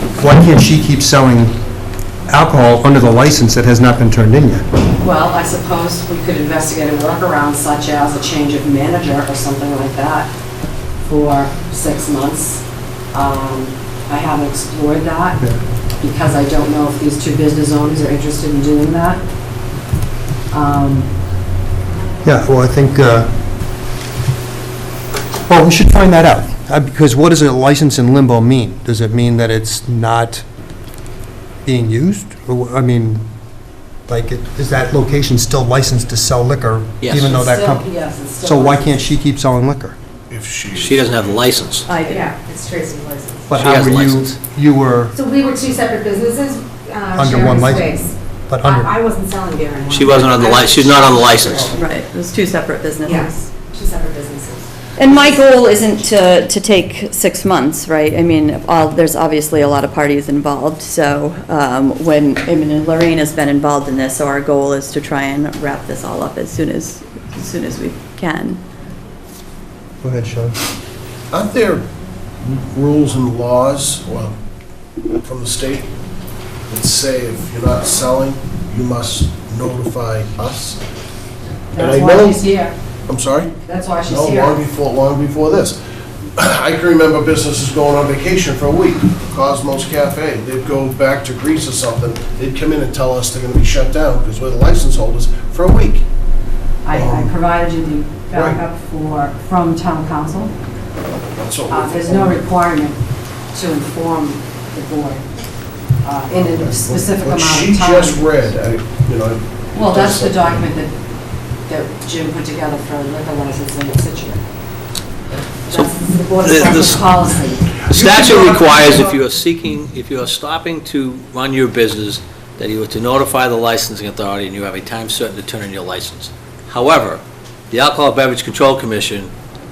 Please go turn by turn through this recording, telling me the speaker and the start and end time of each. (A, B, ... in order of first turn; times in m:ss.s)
0:00.2-0:01.6 A
0:02.3-0:04.6 A
0:05.0-0:10.3 B
0:11.0-0:15.4 B
0:16.0-0:19.2 B
0:20.5-0:21.1 B
0:22.2-0:23.3 A
0:25.5-0:30.4 A
0:31.6-0:33.2 A
0:34.1-0:37.9 A
0:37.0-0:37.3 C
0:37.1-0:39.0 B
0:38.4-0:40.0 A
0:40.3-0:41.5 D
0:40.7-0:41.8 C
0:41.9-0:42.2 B
0:42.0-0:43.5 E
0:43.5-0:45.1 A
0:43.6-0:44.4 C
0:45.1-0:51.8 E
0:47.2-0:47.9 A
0:48.5-0:48.9 A
0:49.9-0:51.7 C
0:51.7-0:53.2 F
0:53.1-0:54.7 E
0:55.0-1:08.6 F
1:10.0-1:10.6 A
1:11.3-1:11.8 D
1:12.4-1:14.3 D
1:15.2-1:15.9 D
1:16.7-1:20.8 D
1:21.7-1:22.7 B
1:21.7-1:22.5 D
1:23.1-1:23.5 D
1:23.6-1:24.6 B
1:24.1-1:25.8 D
1:26.4-1:36.0 D
1:36.8-1:40.5 B
1:36.9-1:37.3 D
1:38.3-1:38.6 D
1:41.4-1:42.4 D
1:41.7-1:43.0 B
1:43.5-1:45.2 B
1:46.0-1:48.3 B
1:46.4-1:50.5 D
1:49.7-1:50.9 B
1:51.6-1:54.4 B
1:55.6-1:57.6 B
1:56.4-1:57.0 C
1:57.9-2:09.3 C
1:58.0-1:59.1 D